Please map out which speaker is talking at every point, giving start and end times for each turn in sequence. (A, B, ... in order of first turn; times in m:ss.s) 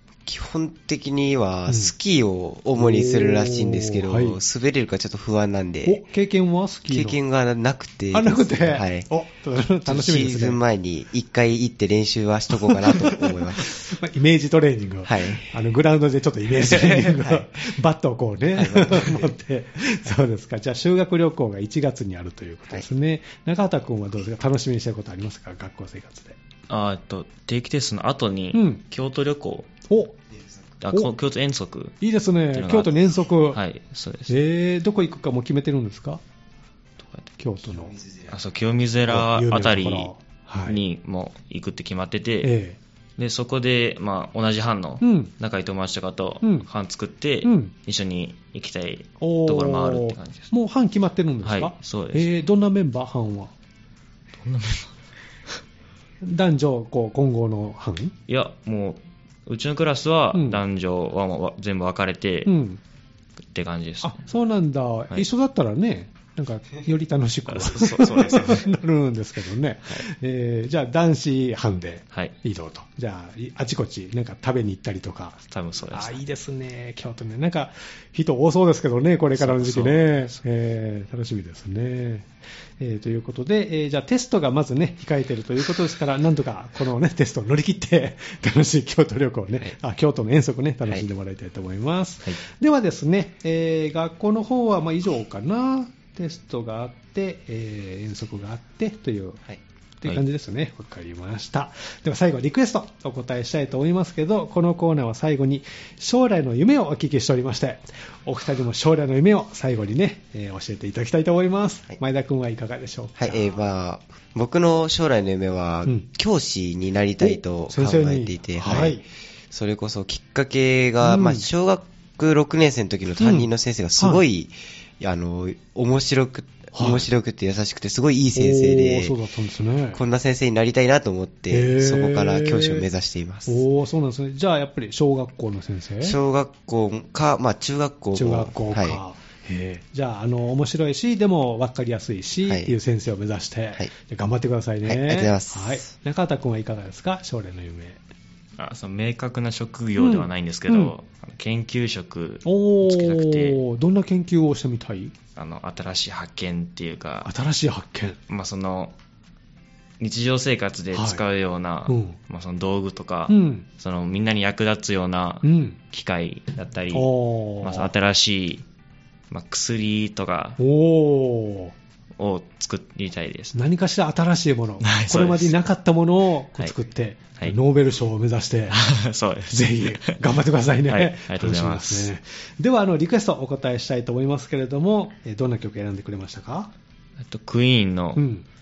0:00.3-0:06.0 A
0:01.7-0:01.9 B
0:02.8-0:04.4 B
0:05.8-0:07.2 B
0:06.9-0:09.1 A
0:08.1-0:10.6 B
0:09.9-0:13.7 A
0:12.5-0:26.4 B
0:15.0-0:15.6 A
0:16.5-0:17.5 A
0:18.6-0:19.1 A
0:18.7-0:19.2 C
0:26.7-0:29.7 C
0:28.5-0:28.8 B
0:29.9-0:30.2 B
0:30.3-0:30.6 A
0:30.8-0:32.0 C
0:32.0-0:33.6 B
0:32.5-0:32.9 C
0:33.5-0:34.4 C
0:34.3-0:36.2 B
0:37.0-0:37.3 C
0:37.4-0:38.0 B
0:37.7-0:38.4 A
0:38.3-0:40.1 C
0:39.1-0:40.8 B
0:40.7-0:42.5 C
0:42.4-0:42.8 B
0:43.2-0:50.5 C
0:45.0-0:45.3 B
0:47.4-0:47.7 B
0:49.2-0:53.5 B
0:51.4-0:52.3 C
0:54.4-0:54.9 C
0:56.2-0:58.2 B
0:58.3-1:02.5 C
1:00.3-1:00.6 B
1:02.5-1:02.8 B
1:03.5-1:04.2 C
1:04.0-1:15.4 B
1:07.5-1:08.7 C
1:15.5-1:16.2 C
1:15.9-1:22.3 B
1:19.4-1:20.4 C
1:22.8-1:39.4 B
1:40.0-1:53.4 B
1:53.2-2:09.2 A
1:57.2-1:59.0 B
2:01.0-2:01.5 B
2:03.2-2:03.5 B
2:06.7-2:07.1 B
2:08.4-2:10.0 B
2:09.9-2:13.6 A
2:11.5-2:12.8 B
2:13.5-2:16.2 B
2:16.0-2:19.0 A
2:18.1-2:28.0 B
2:22.4-2:22.7 A
2:24.8-2:25.9 A
2:28.6-2:33.6 C
2:30.0-2:30.9 B
2:32.4-2:35.2 B
2:35.4-2:37.3 C
2:37.2-2:38.2 B
2:38.3-2:39.0 C
2:40.0-2:47.1 C
2:40.9-2:41.2 B
2:41.9-2:42.2 B
2:43.3-2:43.7 B
2:45.4-2:45.8 B
2:46.9-2:47.9 B
2:47.6-2:48.6 C
2:49.3-2:50.6 C
2:50.6-2:51.7 B
2:52.2-2:53.6 C
2:53.5-2:58.8 B
2:54.8-2:55.6 C
2:58.7-3:00.2 C
2:59.5-3:06.7 B
3:00.9-3:02.1 C
3:07.2-3:08.2 C
3:08.2-3:08.4 B